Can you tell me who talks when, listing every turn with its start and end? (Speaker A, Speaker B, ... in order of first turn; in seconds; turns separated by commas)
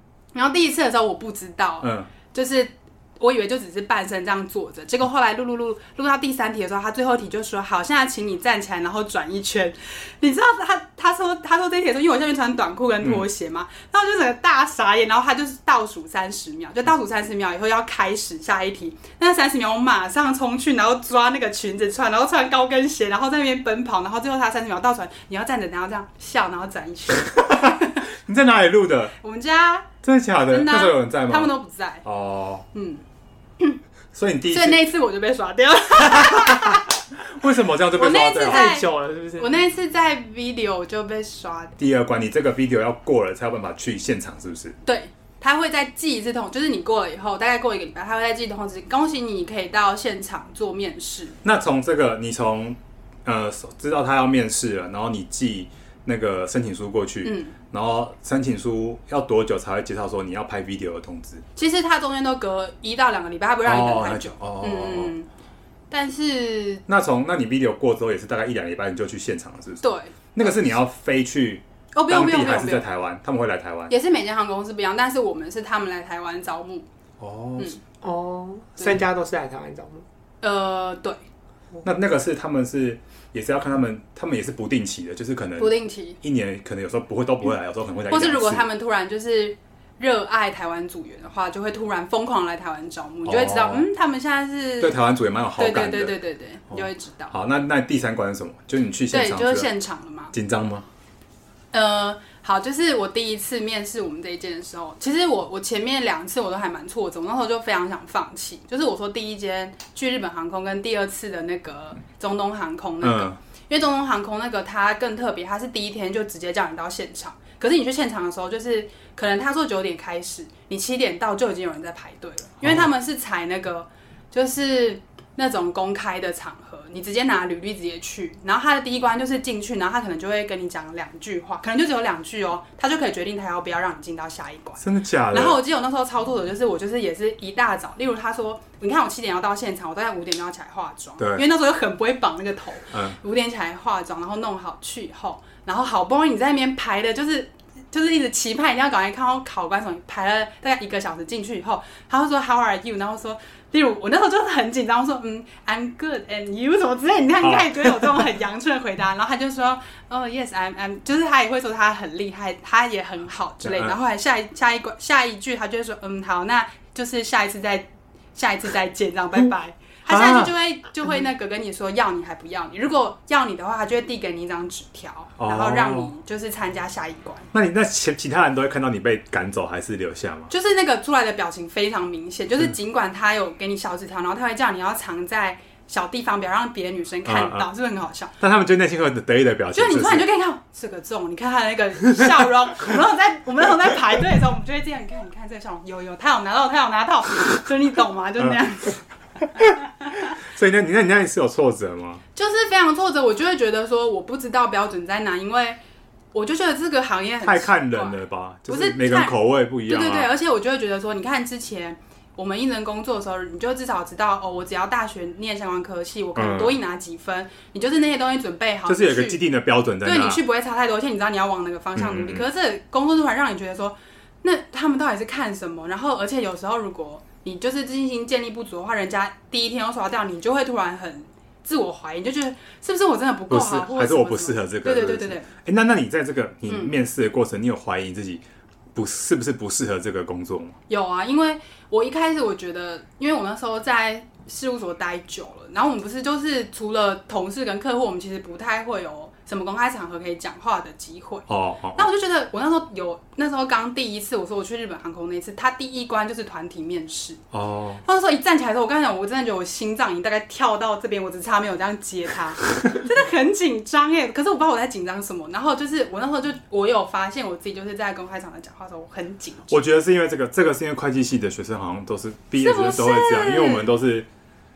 Speaker A: 0.3-28.0, Speaker B: 1.8-2.1, Speaker B: 27.5-29.1, Speaker A: 29.2-29.9, Speaker B: 30.0-31.5, Speaker A: 30.5-32.0, Speaker B: 32.0-32.7, Speaker A: 32.7-33.0, Speaker B: 34.1-34.8, Speaker A: 34.5-36.9, Speaker B: 37.3-38.7, Speaker A: 37.9-41.8, Speaker C: 38.3-39.6, Speaker B: 41.8-44.8, Speaker A: 44.9-51.4, Speaker B: 51.4-61.4, Speaker A: 57.2-57.5, Speaker A: 61.6-65.3, Speaker B: 63.6-65.1, Speaker A: 65.9-66.8, Speaker B: 66.9-73.9, Speaker A: 69.8-70.7, Speaker A: 71.9-72.8, Speaker A: 73.9-76.9, Speaker B: 77.2-77.8, Speaker C: 78.0-80.0, Speaker A: 80.4-81.2, Speaker B: 81.8-88.7, Speaker A: 85.6-86.2, Speaker A: 88.1-95.0, Speaker B: 93.2-93.9, Speaker B: 94.8-96.2, Speaker A: 95.6-97.3, Speaker B: 96.7-99.7, Speaker A: 99.1-100.3, Speaker B: 100.3-100.9, Speaker A: 101.7-177.5, Speaker B: 113.0-113.4, Speaker B: 122.6-122.9, Speaker B: 134.8-135.6, Speaker B: 141.2-141.4, Speaker B: 142.9-143.2, Speaker B: 157.4-158.2, Speaker B: 163.6-163.9, Speaker B: 170.1-170.5, Speaker B: 175.4-176.1, Speaker B: 177.5-180.5, Speaker A: 180.5-188.3, Speaker B: 187.2-187.7, Speaker B: 188.4-190.3, Speaker A: 189.7-199.0, Speaker A: 199.6-200.3, Speaker B: 200.4-202.2, Speaker A: 202.3-205.8, Speaker A: 206.3-219.4, Speaker B: 207.4-210.3, Speaker B: 216.4-216.8, Speaker B: 218.9-220.4, Speaker A: 220.0-235.5, Speaker B: 222.0-222.4, Speaker B: 233.5-238.4, Speaker A: 236.7-236.9, Speaker B: 238.9-240.8, Speaker A: 240.9-257.4, Speaker B: 251.5-252.1, Speaker B: 257.5-258.0, Speaker A: 258.0-269.7, Speaker B: 269.7-274.3, Speaker A: 272.6-273.9